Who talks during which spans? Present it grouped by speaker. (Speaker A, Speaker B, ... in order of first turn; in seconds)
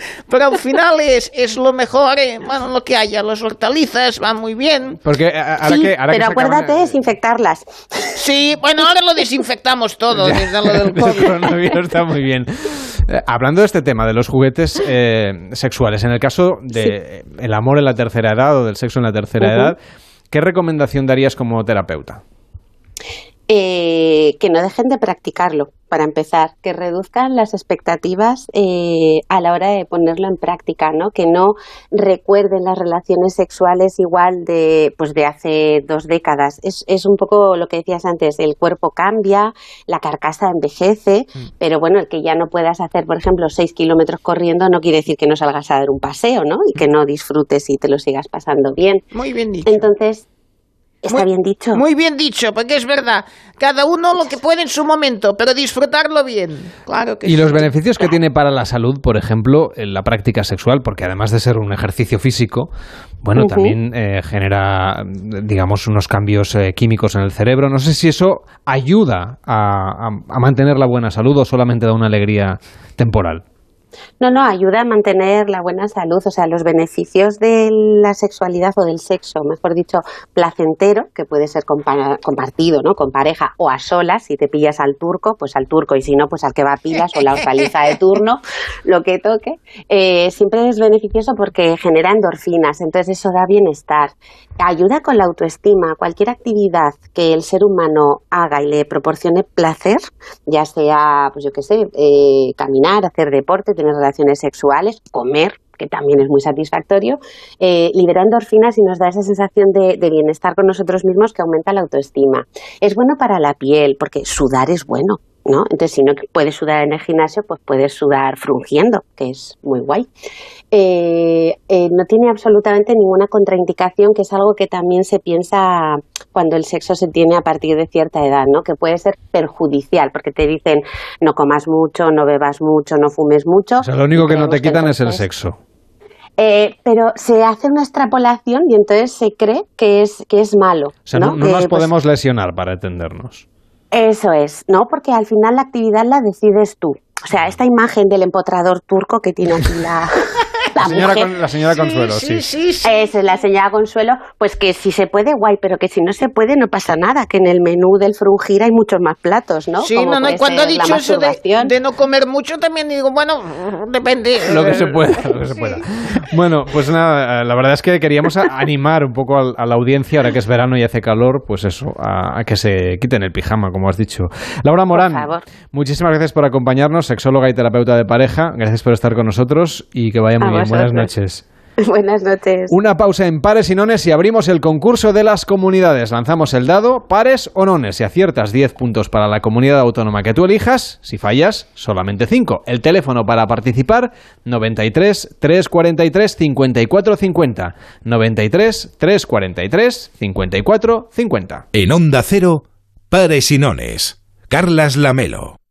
Speaker A: 0.3-5.0, 8.2-11.3, 49.1-49.8, 51.1-58.1, 151.7-153.1, 159.8-165.8
Speaker B: 5.0-7.0, 10.1-19.8, 20.3-22.2, 57.2-62.7, 63.2-73.4, 133.8-135.6, 141.1-143.4, 150.8-152.4, 164.5-181.4, 182.7-201.6
Speaker C: 5.6-8.2, 19.4-19.7, 23.5-49.0, 49.7-50.3, 51.0-51.8, 63.4-63.7, 74.2-120.1, 120.7-135.3, 136.4-141.9, 143.9-151.3, 152.8-161.7, 174.9-175.4, 180.4-181.1, 181.8-182.7
Speaker D: 201.8-205.6